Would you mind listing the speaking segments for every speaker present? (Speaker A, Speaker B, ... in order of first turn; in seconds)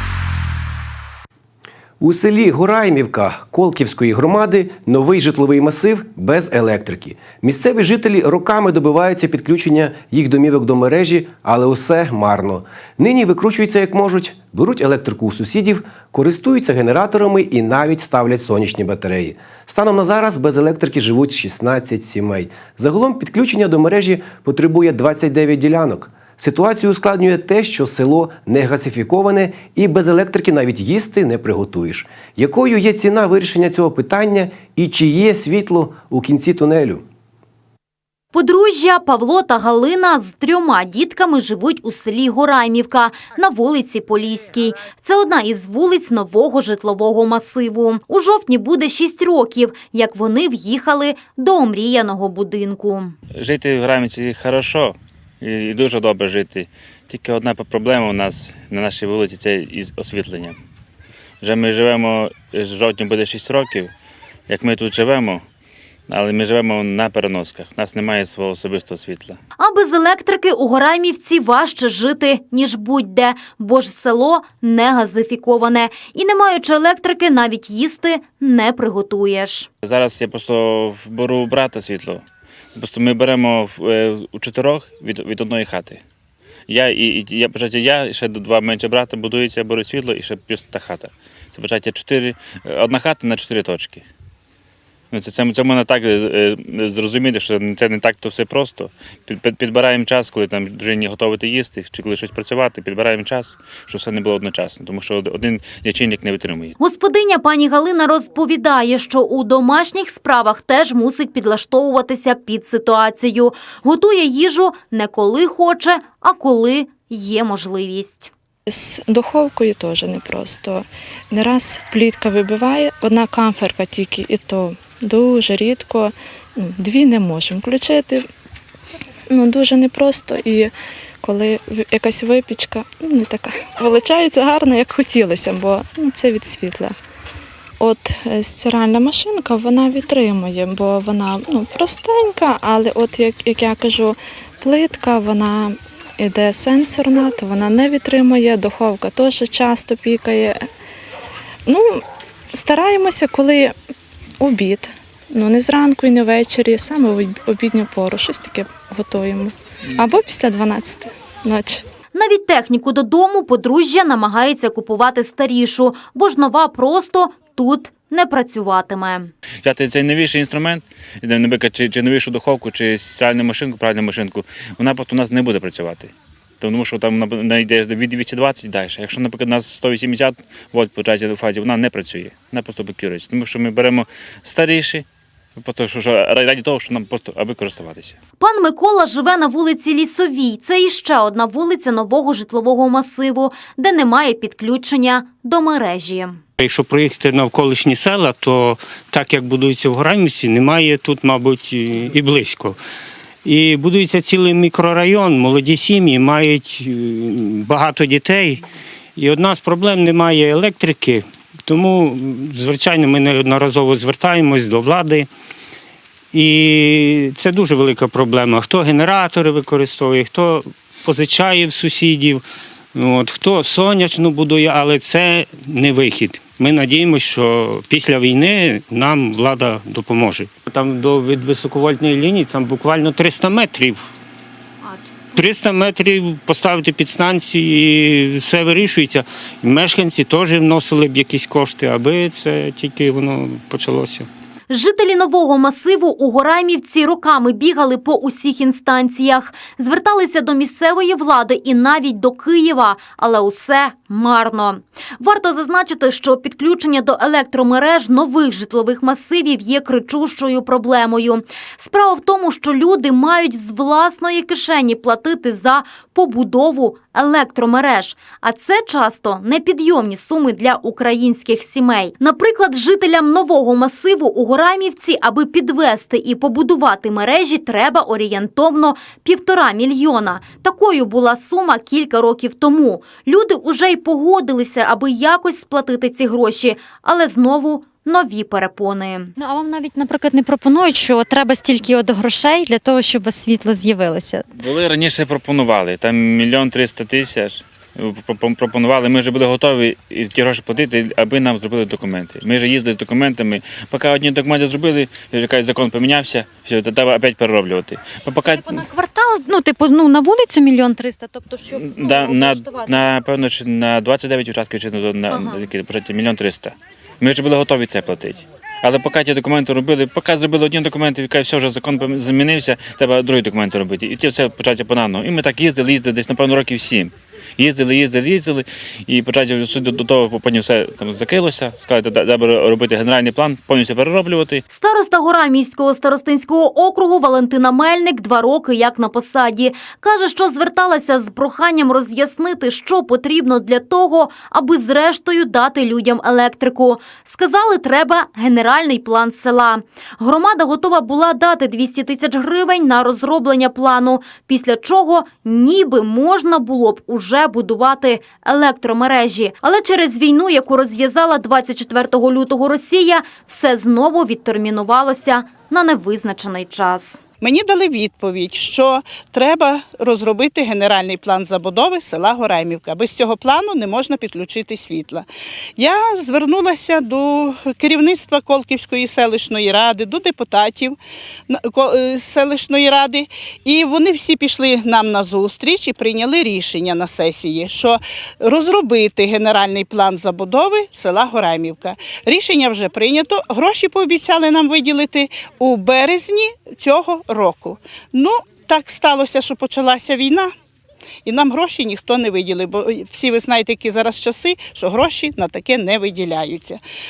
Speaker A: 2.0-37.0
Speaker B: 38.3-53.1, 69.6-79.7, 106.8-118.3, 162.1-169.3, 188.4-196.4, 244.7-289.3, 308.8-309.3, 334.7-367.2
Speaker C: 53.4-60.6, 61.4-63.9, 64.5-65.4, 66.1-69.4, 79.8-82.2, 82.8-86.0, 86.7-94.0, 95.1-106.8, 169.6-188.2, 294.6-308.8, 311.7-334.6
Speaker D: 118.7-128.3, 129.3-130.7, 131.2-136.9, 137.8-150.7, 151.7-153.8, 154.4-161.8
Speaker E: 196.6-202.8, 203.4-208.6, 209.2-215.3, 216.3-222.4, 222.9-234.1, 235.3-244.3
Speaker F: 289.4-294.4, 309.4-312.8
Speaker G: 367.4-375.2, 375.8-381.0, 381.5-400.5, 401.2-406.8